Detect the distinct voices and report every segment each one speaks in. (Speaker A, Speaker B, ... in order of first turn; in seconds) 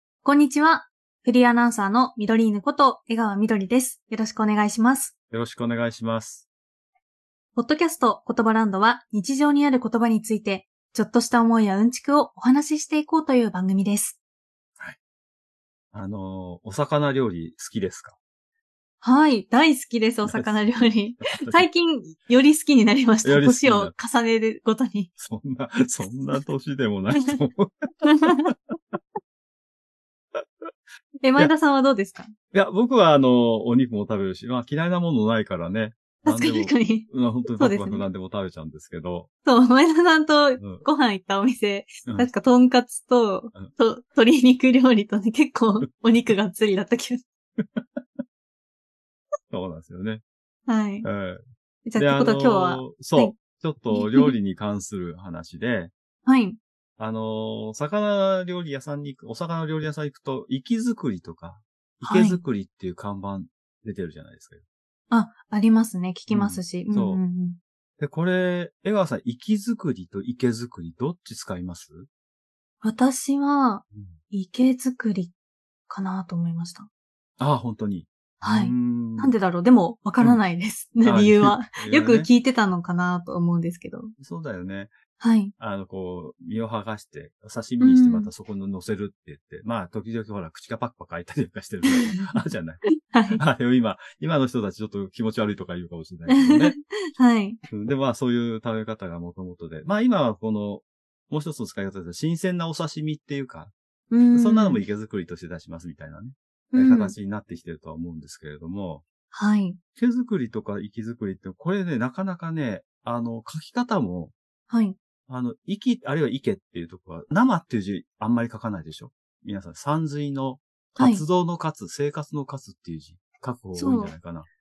Speaker A: 0.2-5.1, 7.5-14.2, 19.0-25.1, 28.1-28.5, 31.2-32.3, 36.2-38.0, 39.5-47.2, 50.7-51.0, 51.8-53.3, 53.9-54.3, 56.2-56.6, 62.0-62.4, 65.1-67.6, 72.8-75.3, 75.9-76.9, 78.4-84.1, 85.2-85.5, 87.8-88.3, 91.9-92.3, 92.9-93.4, 96.3-97.6, 104.1-104.8, 106.7-107.1, 109.3-109.8, 114.7-115.0, 121.0-121.2, 123.7-124.1
Speaker B: 5.3-6.5, 15.9-18.1, 20.2-20.6, 21.2-21.7, 23.2-23.9, 25.2-29.0, 30.3-30.7, 32.5-39.3, 40.6-40.8, 47.6-48.2, 49.5-50.2, 51.0-51.4, 52.0-55.9, 57.0-64.6, 66.3-67.2, 68.0-72.1, 77.4-79.3, 81.0-82.3, 84.2-84.9, 85.6-96.8, 97.7-103.7, 104.3-109.0, 110.0-114.3, 115.3-124.5